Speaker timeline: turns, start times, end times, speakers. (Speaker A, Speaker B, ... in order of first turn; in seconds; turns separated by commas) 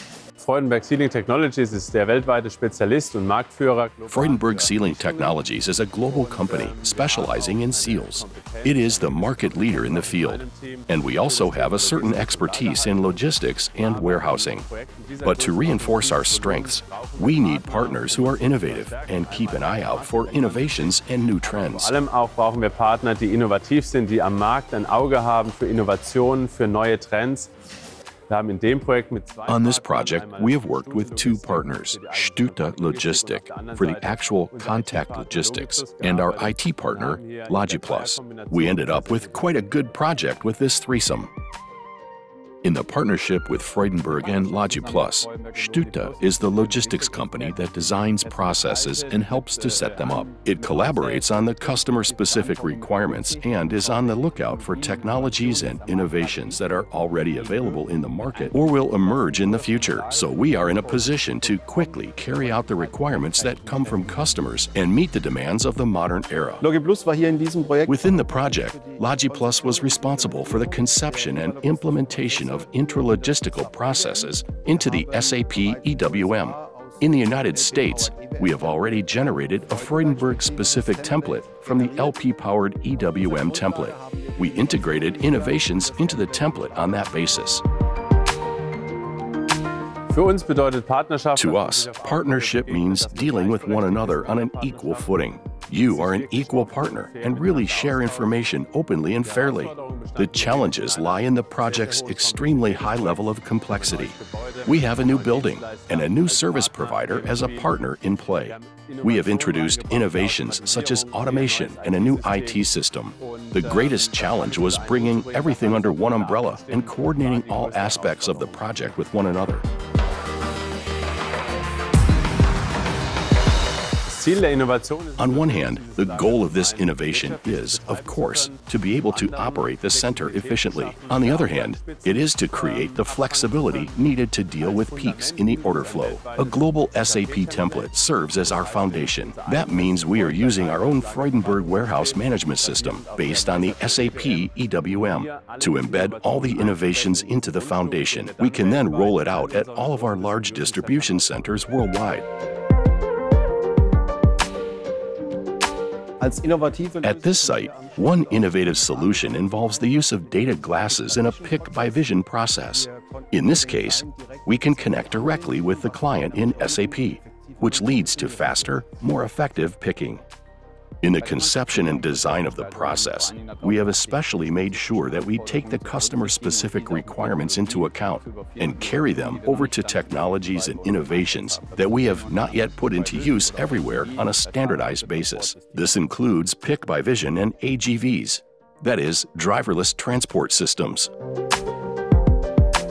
Speaker A: 0.4-5.5, Speaker B: 4.1-14.7, Speaker A: 6.1-27.5, Speaker B: 15.2-22.0, Speaker A: 28.3-40.1, Speaker B: 29.5-41.3, Speaker B: 42.6-66.7, Speaker C: 44.2-47.4, Speaker A: 48.2-51.8, Speaker C: 50.9-51.3, Speaker C: 52.0-57.0, Speaker A: 57.4-57.7, Speaker A: 58.3-64.3, Speaker C: 66.6-82.2, Speaker B: 67.9-87.6, Speaker C: 82.9-87.1, Speaker A: 90.1-98.5, Speaker B: 91.3-104.2, Speaker A: 99.2-119.1, Speaker B: 104.7-119.7, Speaker A: 124.1-151.6, Speaker B: 125.2-152.3, Speaker C: 156.2-157.0, Speaker A: 157.0-161.7, Speaker B: 157.0-170.2, Speaker C: 161.6-162.0, Speaker C: 162.8-168.7, Speaker B: 171.0-191.1, Speaker C: 171.5-182.0, Speaker A: 182.2-186.0, Speaker C: 184.9-185.3